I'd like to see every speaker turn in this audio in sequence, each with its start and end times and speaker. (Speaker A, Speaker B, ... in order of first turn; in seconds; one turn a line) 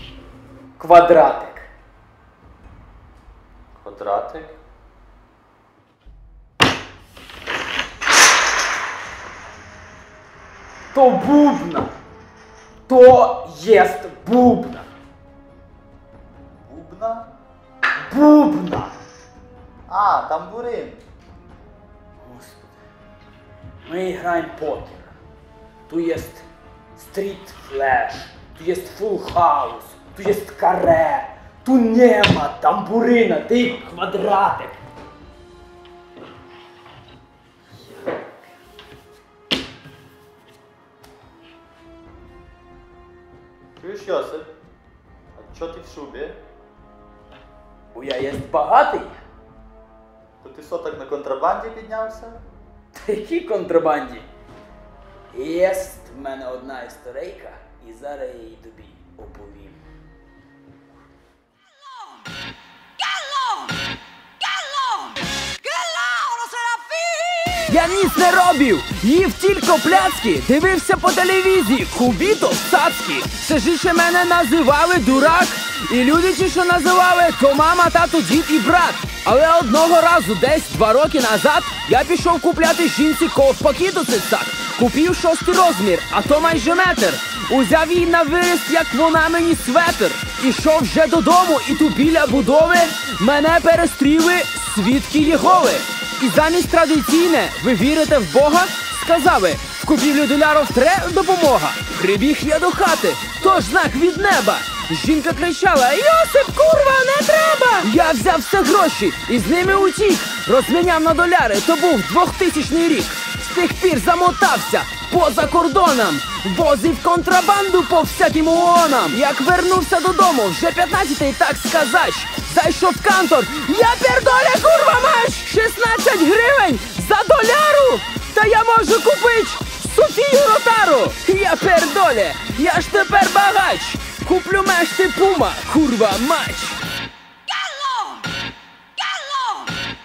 Speaker A: 0.8-1.7
Speaker B: 3.8-4.6
Speaker A: 10.9-11.9
Speaker A: 12.9-14.9
Speaker B: 16.6-17.3
Speaker A: 18.1-19.0
Speaker B: 19.9-21.0
Speaker A: 22.2-22.8
Speaker A: 23.8-25.1
Speaker A: 25.9-34.8
Speaker B: 43.8-44.5
Speaker B: 45.4-46.4
Speaker A: 47.9-49.2
Speaker B: 50.4-52.4
Speaker A: 53.0-54.3
Speaker A: 55.3-59.8
Speaker C: 66.1-136.8
Speaker C: 137.8-138.2
Speaker C: 139.2-139.7